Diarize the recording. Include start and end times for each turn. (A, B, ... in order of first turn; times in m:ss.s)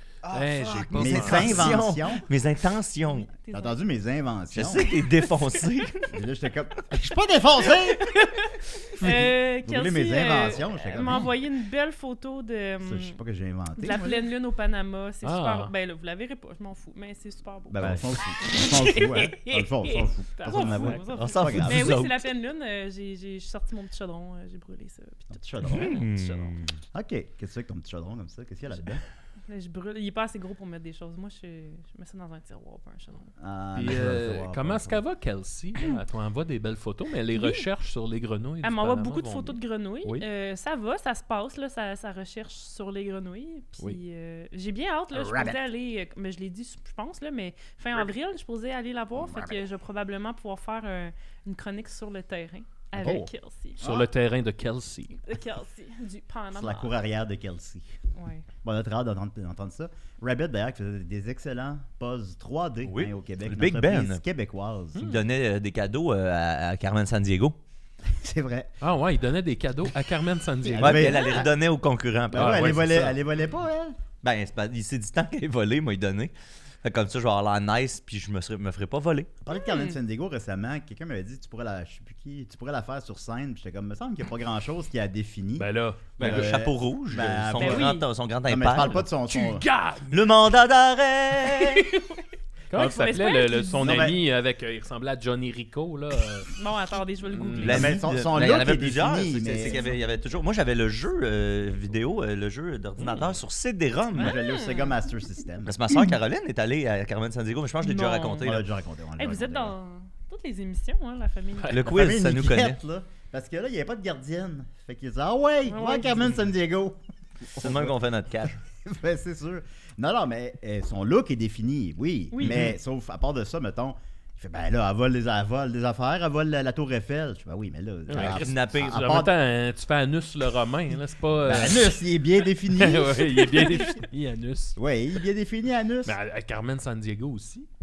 0:00.3-0:01.8 A
0:00.4-0:02.2 B
0:00.7-0:03.3 C
0:03.2-0:03.8 D
0:03.4-0:05.0 B
0:04.5-0:06.2 C
0:06.1-0:08.1 B
0:08.0-0:13.2 D
0:09.0-0:11.3 B
0:12.8-0:14.2 B
0:13.8-0:26.6 D
0:15.2-0:15.7 A
0:17.7-0:22.0 B
0:20.6-0:21.0 A
0:21.1-0:22.3 C
0:25.3-0:25.9 B
0:25.7-0:26.8 C
0:26.9-0:29.0 B
0:29.5-0:33.3 D
0:33.4-0:35.0 B
0:33.8-0:40.2 A
0:37.3-0:37.7 D
0:38.6-0:53.8 D
0:45.2-0:45.6 B
0:49.2-0:49.5 B
0:53.0-0:55.2 A
0:53.8-0:54.1 B
0:55.2-0:56.9 D
0:56.5-0:57.9 B
0:58.2-0:58.5 D
0:58.6-1:05.1 B
1:02.8-1:04.2 C
1:05.0-1:05.2 A
1:05.0-1:07.6 C
1:08.1-1:08.8 B
1:08.8-1:11.3 A
1:10.6-1:11.5 B
1:10.8-1:13.1 C
1:12.3-1:14.0 B
1:12.3-1:13.1 A
1:14.2-1:19.3 C
1:19.4-1:29.6 B
1:19.5-1:20.0 D
1:25.6-1:26.5 A
1:26.2-1:29.0 C
1:27.6-1:28.1 D
1:28.8-1:30.1 A
1:30.1-1:31.8 C
1:31.7-1:32.2 D
1:32.7-1:36.5 A
1:32.8-1:33.8 D
1:32.8-1:33.1 B
1:33.8-1:34.2 B
1:36.5-1:37.9 D
1:37.3-1:37.9 A
1:37.6-1:44.4 C
1:37.6-1:39.9 B
1:44.2-1:45.8 B
1:44.2-1:45.0 D
1:45.6-1:48.7 C
1:47.8-1:48.5 D
1:48.4-1:49.8 B
1:49.2-1:51.8 D
1:51.7-1:52.8 C
1:51.8-2:09.3 B
1:55.7-1:56.3 D
1:57.6-1:58.6 C
2:02.4-2:02.7 C
2:08.1-2:12.0 A
2:08.1-2:09.1 C
2:11.4-2:14.0 B
2:12.8-2:14.8 A
2:14.8-2:16.2 B
2:16.1-2:17.7 A